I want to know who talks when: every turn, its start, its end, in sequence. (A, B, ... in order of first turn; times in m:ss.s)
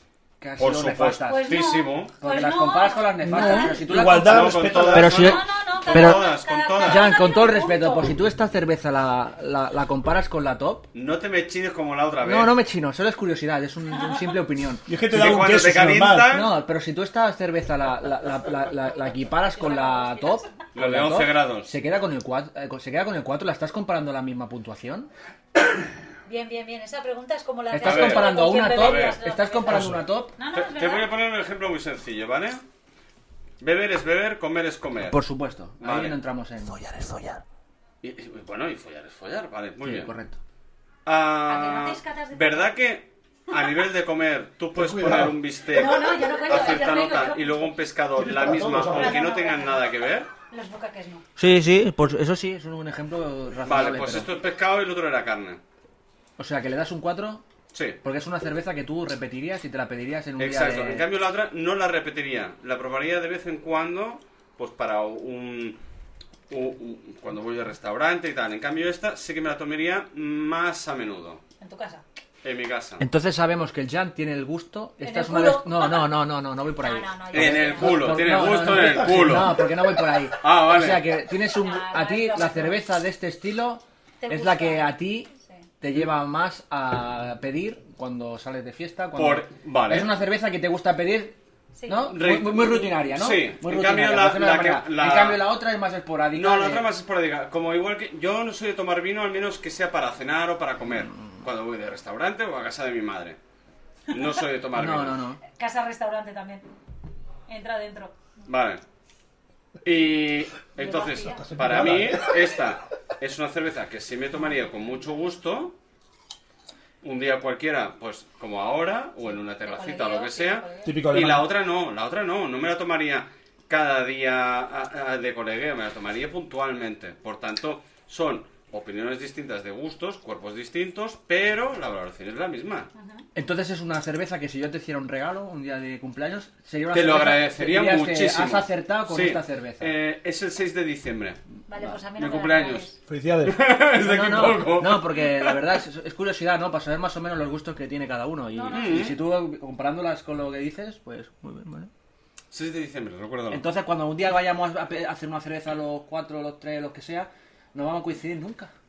0:00.4-0:01.6 A
0:00.6-0:02.1 B
0:01.3-0:03.8 C
0:02.2-0:06.3 A
0:03.2-0:05.2 D
0:04.2-0:07.1 B
0:05.2-0:08.1 C
0:06.8-0:10.9 A
0:10.9-0:12.6 B
0:12.2-0:14.8 A
0:14.9-0:16.3 D
0:15.1-0:16.6 B
0:16.3-0:25.1 A
0:19.5-0:20.5 C
0:20.7-0:21.7 B
0:26.2-0:31.1 C
0:27.7-0:30.3 A
0:27.8-0:29.2 B
0:29.7-0:30.0 D
0:30.5-0:32.6 B
0:33.6-0:35.2 B
0:35.0-0:37.4 A
0:35.8-0:36.2 B
0:38.0-0:40.1 B
0:39.8-0:40.4 A
0:41.0-0:50.3 B
0:41.5-0:42.7 C
0:44.7-0:45.4 D
0:45.7-0:47.7 C
0:48.2-0:49.2 D
0:48.9-0:49.9 C
0:50.5-0:51.2 C
0:51.4-0:54.3 A
0:53.6-0:55.6 B
0:56.4-0:57.4 A
0:57.7-0:58.0 B
0:58.0-1:01.0 A
1:00.4-1:05.8 B
1:06.5-1:11.4 B
1:11.6-1:12.0 C
1:12.4-1:13.0 B
1:13.0-1:36.8 A
1:15.0-1:16.1 C
1:16.8-1:18.4 C
1:17.3-1:19.6 B
1:18.5-1:19.6 D
1:20.4-1:21.1 B
1:21.5-1:22.8 C
1:24.2-1:24.9 C
1:29.2-1:30.1 B
1:31.7-1:32.1 C
1:32.1-1:35.5 B
1:36.3-1:43.4 B
1:44.1-1:45.2 B
1:44.8-1:45.4 A
1:45.5-1:46.6 C
1:47.5-1:48.1 C
1:48.4-1:48.8 B
1:49.8-1:55.7 B
1:50.8-1:51.4 C
1:51.2-1:52.5 D
1:57.0-2:12.9 B
1:59.2-2:00.9 C
2:00.8-2:01.5 D
2:13.0-2:13.2 C
2:13.3-2:19.9 A
2:16.9-2:21.4 B
2:21.7-2:23.0 C
2:22.1-2:22.9 B
2:23.1-2:23.6 D
2:23.4-2:25.6 B
2:24.0-2:31.9 A
2:28.5-2:29.1 C
2:28.7-2:29.2 B
2:32.5-2:33.6 B
2:33.5-2:38.7 A